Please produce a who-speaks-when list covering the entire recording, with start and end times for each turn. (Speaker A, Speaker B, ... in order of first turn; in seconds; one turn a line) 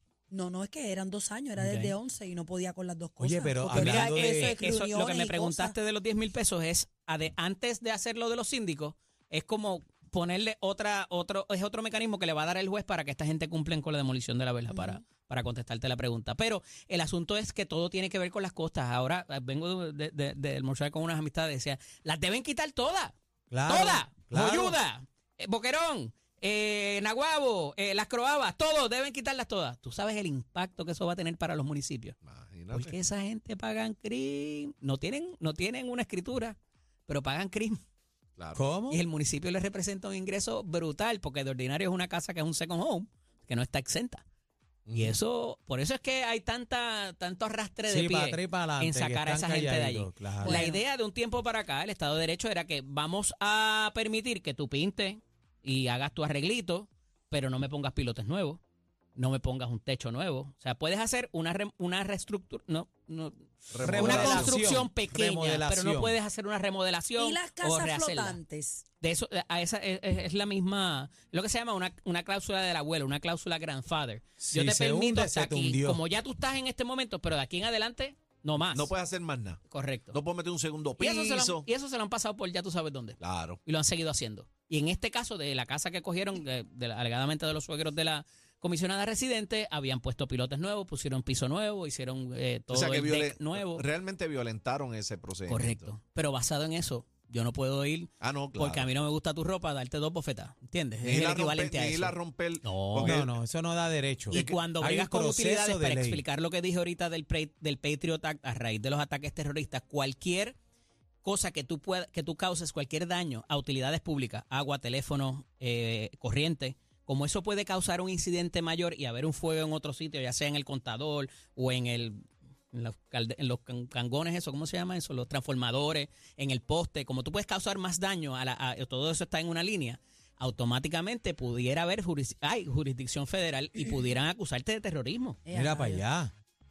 Speaker A: 0.3-5.8
Speaker B: 1.6-1.9
Speaker C: 3.2-4.6
Speaker B: 3.7-23.1
Speaker A: 14.7-15.0
Speaker C: 23.5-24.8
Speaker B: 23.6-32.1
Speaker D: 32.2-32.9
Speaker B: 32.7-36.6
Speaker B: 37.1-37.8
Speaker C: 38.5-39.0
Speaker B: 38.9-44.2
Speaker D: 44.9-45.1
Speaker B: 44.9-58.6
Speaker C: 47.9-50.6
Speaker A: 50.4-50.8
Speaker B: 59.1-68.4
Speaker D: 63.7-64.6
Speaker C: 63.8-66.2
Speaker A: 67.2-68.8
Speaker B: 69.0-78.9
Speaker C: 74.4-76.0
Speaker D: 78.7-79.6
Speaker B: 79.7-80.2
Speaker D: 80.1-81.7
Speaker B: 81.0-93.8
Speaker D: 83.2-83.6
Speaker D: 92.7-95.9
Speaker B: 95.5-103.3
Speaker D: 98.2-98.9
Speaker D: 101.0-103.2
Speaker C: 103.0-106.2
Speaker B: 104.3-110.6
Speaker D: 104.3-104.6
Speaker B: 111.2-122.2
Speaker B: 122.7-135.4
Speaker A: 135.5-136.1
Speaker C: 135.5-136.3